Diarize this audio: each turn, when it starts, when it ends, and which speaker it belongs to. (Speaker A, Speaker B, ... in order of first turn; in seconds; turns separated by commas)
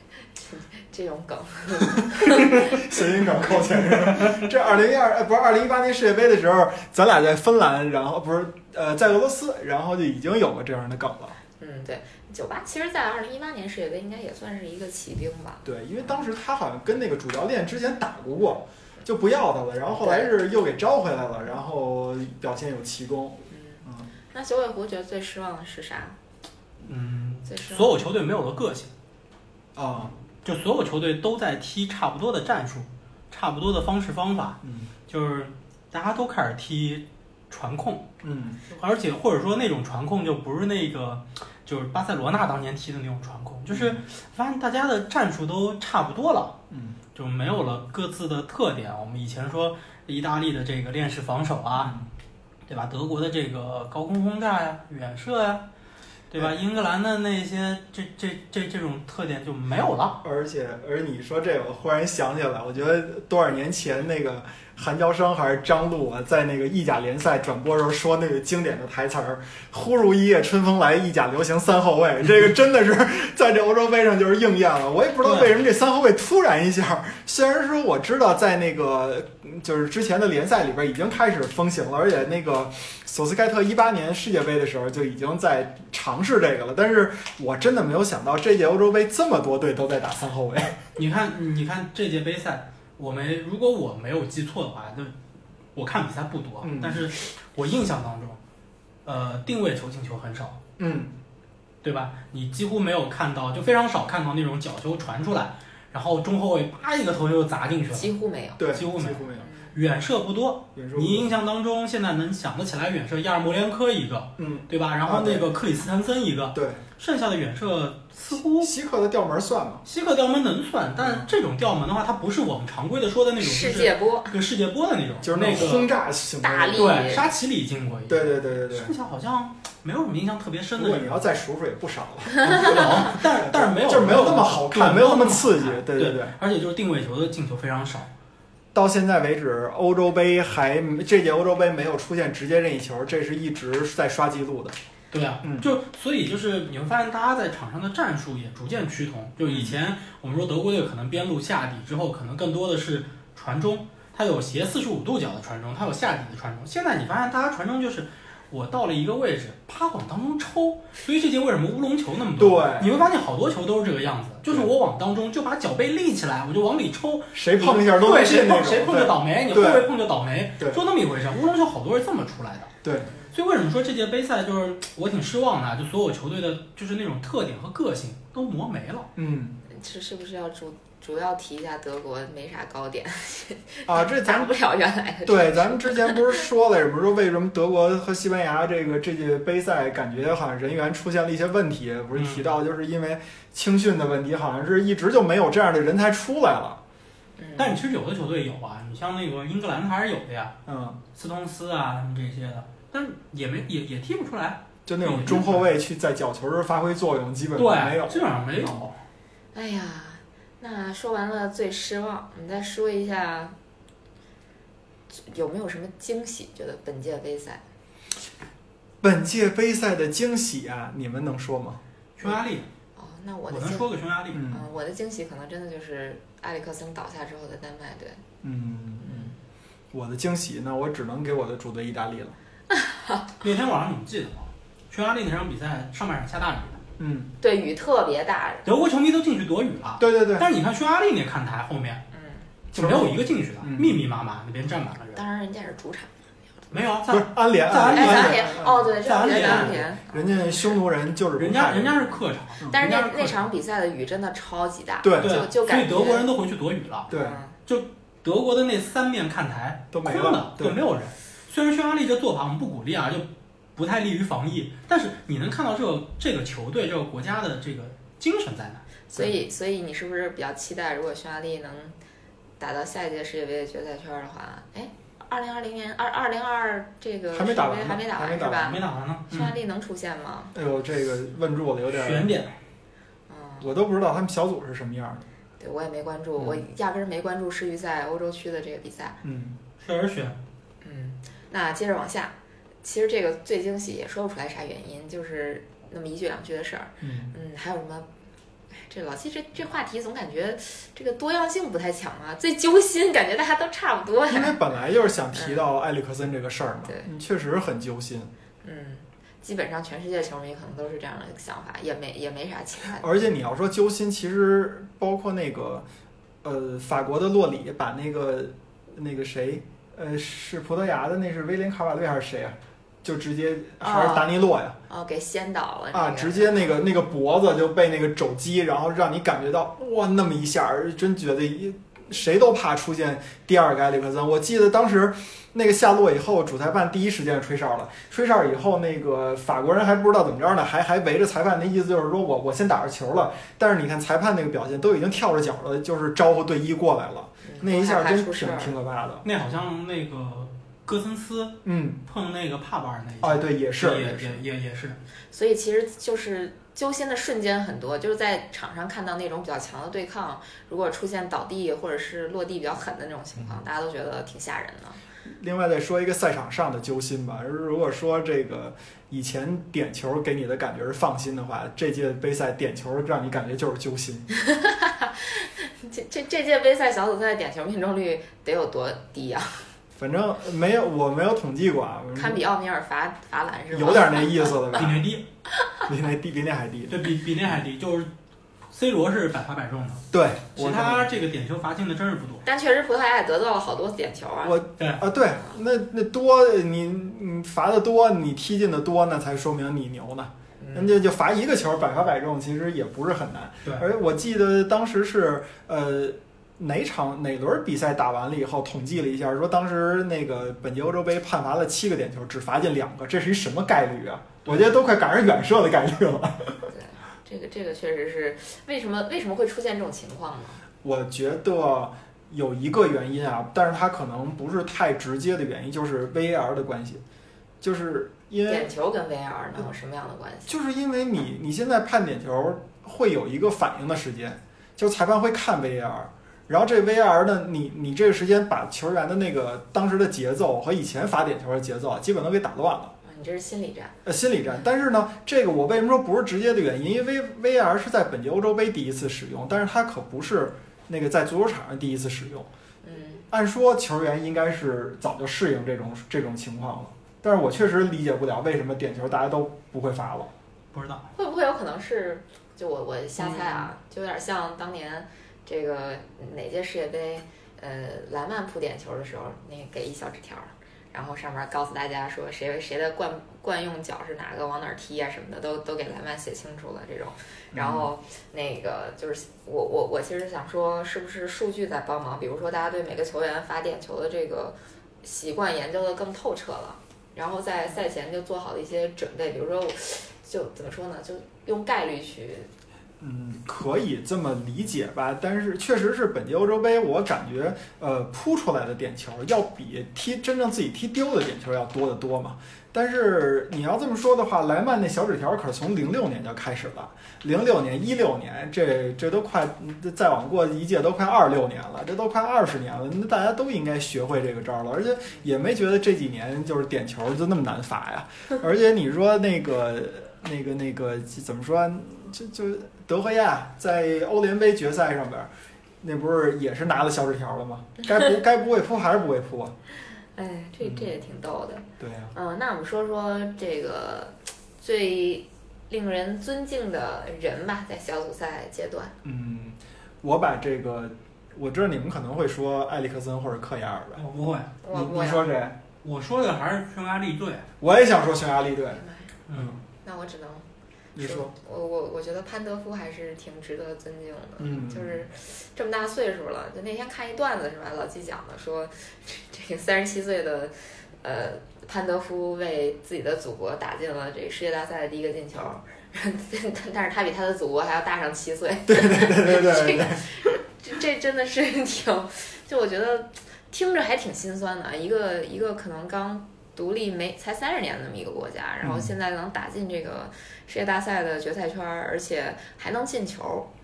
Speaker A: 0.3-2.8, Speaker B: 2.0-11.4, Speaker C: 4.0-4.5, Speaker A: 11.6-15.7, Speaker B: 15.7-24.1, Speaker A: 20.0-20.3, Speaker A: 23.5-26.2, Speaker C: 26.9-28.9, Speaker A: 27.5-28.0, Speaker B: 29.8-30.1, Speaker C: 30.4-38.1, Speaker B: 34.6-34.9, Speaker B: 38.2-38.6, Speaker C: 38.7-46.6, Speaker B: 43.7-44.0, Speaker B: 46.7-47.0, Speaker C: 47.1-52.0, Speaker B: 51.8-52.1, Speaker C: 52.7-55.6, Speaker C: 56.3-60.2, Speaker B: 60.2-90.8, Speaker C: 75.2-75.5, Speaker C: 91.0-95.2, Speaker C: 95.8-98.4, Speaker B: 96.6-97.1, Speaker C: 99.0-100.6, Speaker B: 100.8-101.1, Speaker C: 101.8-108.1, Speaker A: 107.9-108.7, Speaker B: 108.6-109.5, Speaker C: 108.7-118.7, Speaker A: 109.4-109.8, Speaker B: 110.8-111.3, Speaker B: 114.4-115.5, Speaker B: 116.5-116.8, Speaker B: 118.6-119.8, Speaker C: 119.8-125.9, Speaker B: 121.0-121.3, Speaker A: 123.4-124.3, Speaker B: 125.2-127.2, Speaker A: 126.4-127.3, Speaker C: 126.8-131.2, Speaker B: 128.1-128.9, Speaker B: 130.8-136.4, Speaker C: 132.4-138.1, Speaker B: 138.7-144.8, Speaker C: 145.1-172.7, Speaker B: 145.4-145.7, Speaker B: 149.4-149.8, Speaker B: 162.4-163.0, Speaker B: 167.3-169.9, Speaker B: 172.8-173.1, Speaker C: 173.3-179.1, Speaker B: 179.2-179.6, Speaker A: 179.7-186.4, Speaker B: 183.9-184.5, Speaker B: 185.3-196.8, Speaker C: 192.2-192.4, Speaker A: 197.4-197.8, Speaker C: 197.6-200.6, Speaker B: 200.7-201.0, Speaker C: 201.1-205.7, Speaker B: 204.9-208.9, Speaker C: 207.6-209.0, Speaker A: 209.5-213.6, Speaker A: 215.1-217.6, Speaker B: 219.0-222.4, Speaker C: 222.2-222.7, Speaker A: 223.0-223.9, Speaker C: 223.5-224.4, Speaker B: 224.3-224.6, Speaker A: 224.5-228.2, Speaker B: 228.4-229.3, Speaker A: 229.0-229.3, Speaker B: 229.9-232.4, Speaker A: 232.7-233.3, Speaker C: 233.4-236.8, Speaker B: 237.0-237.3, Speaker A: 237.4-238.6, Speaker C: 238.7-242.0, Speaker B: 240.0-240.5, Speaker A: 242.1-242.5, Speaker C: 242.7-245.2, Speaker B: 242.8-244.0, Speaker A: 245.2-246.1, Speaker C: 246.7-249.8, Speaker B: 247.1-252.1, Speaker A: 247.9-250.8, Speaker C: 251.4-253.4, Speaker A: 252.7-256.3, Speaker B: 255.0-255.4, Speaker C: 255.2-257.1, Speaker B: 257.1-257.4, Speaker A: 257.1-257.6, Speaker C: 257.7-268.9, Speaker B: 259.9-260.8, Speaker A: 269.1-272.0, Speaker A: 272.6-280.5, Speaker B: 277.3-278.8, Speaker C: 278.6-279.5, Speaker B: 280.5-282.3, Speaker C: 281.9-282.5, Speaker A: 283.3-283.7, Speaker B: 283.6-285.3, Speaker A: 285.6-289.2, Speaker B: 286.4-286.6, Speaker B: 289.2-289.6, Speaker C: 289.8-290.4, Speaker A: 290.8-298.1, Speaker B: 297.0-297.3, Speaker A: 298.8-304.6, Speaker B: 304.3-308.3, Speaker A: 305.3-305.6, Speaker A: 308.6-313.1, Speaker B: 313.0-315.9, Speaker B: 316.4-324.8, Speaker A: 323.8-324.3, Speaker A: 324.9-326.7, Speaker B: 325.9-349.2, Speaker A: 347.4-348.7, Speaker C: 349.2-355.0, Speaker B: 351.6-352.0, Speaker B: 353.2-354.4, Speaker A: 355.3-365.0, Speaker B: 365.3-374.3, Speaker A: 374.4-379.6, Speaker B: 380.0-382.4, Speaker A: 382.1-384.8, Speaker B: 383.7-385.0, Speaker C: 384.7-385.2, Speaker B: 385.9-387.1, Speaker C: 386.9-388.1, Speaker C: 388.7-392.4, Speaker B: 390.1-391.1, Speaker A: 392.4-394.6, Speaker B: 394.4-416.7, Speaker A: 400.6-400.9, Speaker A: 416.7-420.6, Speaker B: 420.8-427.0, Speaker B: 427.6-428.7, Speaker A: 428.5-430.6, Speaker B: 430.5-442.9, Speaker A: 443.0-443.9, Speaker B: 444.1-452.5, Speaker A: 452.8-453.2, Speaker B: 453.3-460.3, Speaker C: 460.7-461.1, Speaker A: 461.1-492.5, Speaker B: 463.3-463.6, Speaker B: 477.5-477.9, Speaker B: 493.0-525.3, Speaker B: 525.8-529.5, Speaker A: 530.1-538.9, Speaker B: 530.6-530.9, Speaker B: 531.8-532.1, Speaker B: 539.0-544.0, Speaker C: 544.0-544.5, Speaker A: 544.6-545.3, Speaker B: 544.7-545.6, Speaker C: 545.8-547.5, Speaker B: 547.6-549.6, Speaker A: 548.8-549.1, Speaker C: 549.3-549.5, Speaker A: 549.8-550.5, Speaker B: 551.0-551.3, Speaker A: 551.0-583.5, Speaker B: 554.4-555.0, Speaker B: 568.7-570.3, Speaker B: 578.6-578.9